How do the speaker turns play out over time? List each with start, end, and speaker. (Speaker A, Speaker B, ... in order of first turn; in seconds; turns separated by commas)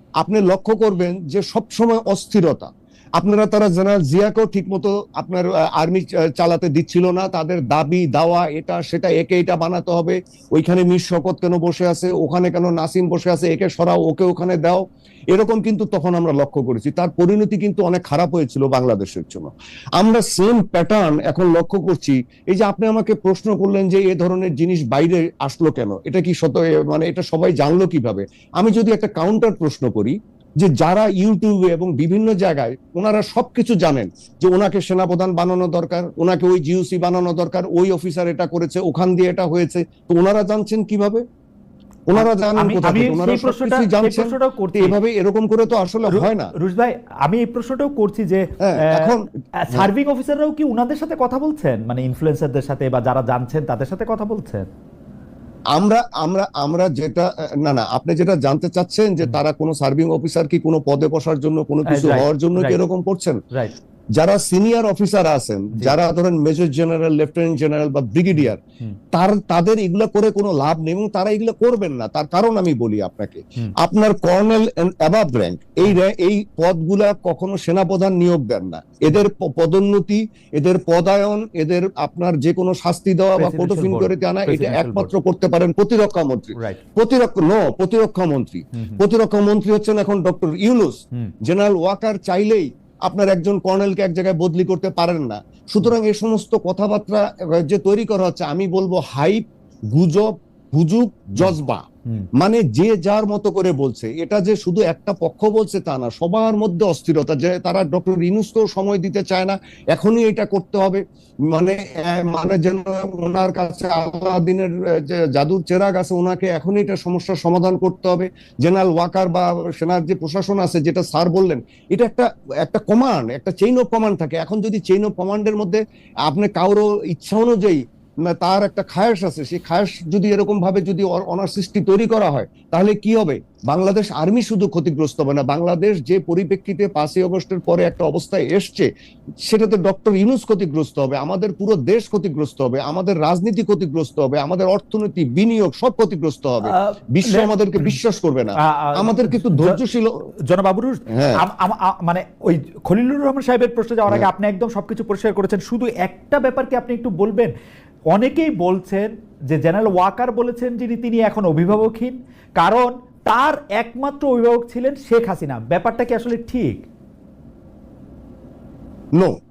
Speaker A: 0.2-41.2, Speaker A: 42.1-46.5, Speaker B: 42.2-45.0, Speaker B: 46.1-54.7, Speaker A: 48.6-49.9, Speaker A: 55.7-63.4, Speaker B: 61.9-62.8, Speaker A: 64.2-68.6, Speaker B: 68.4-69.0, Speaker A: 69.1-101.8, Speaker B: 83.4-85.1, Speaker B: 86.6-86.8, Speaker B: 88.8-89.0, Speaker B: 101.4-102.3, Speaker A: 102.4-138.9, Speaker A: 139.4-150.3, Speaker B: 146.6-148.0, Speaker B: 148.6-149.8, Speaker B: 150.5-157.5, Speaker A: 151.1-151.4, Speaker B: 158.1-166.8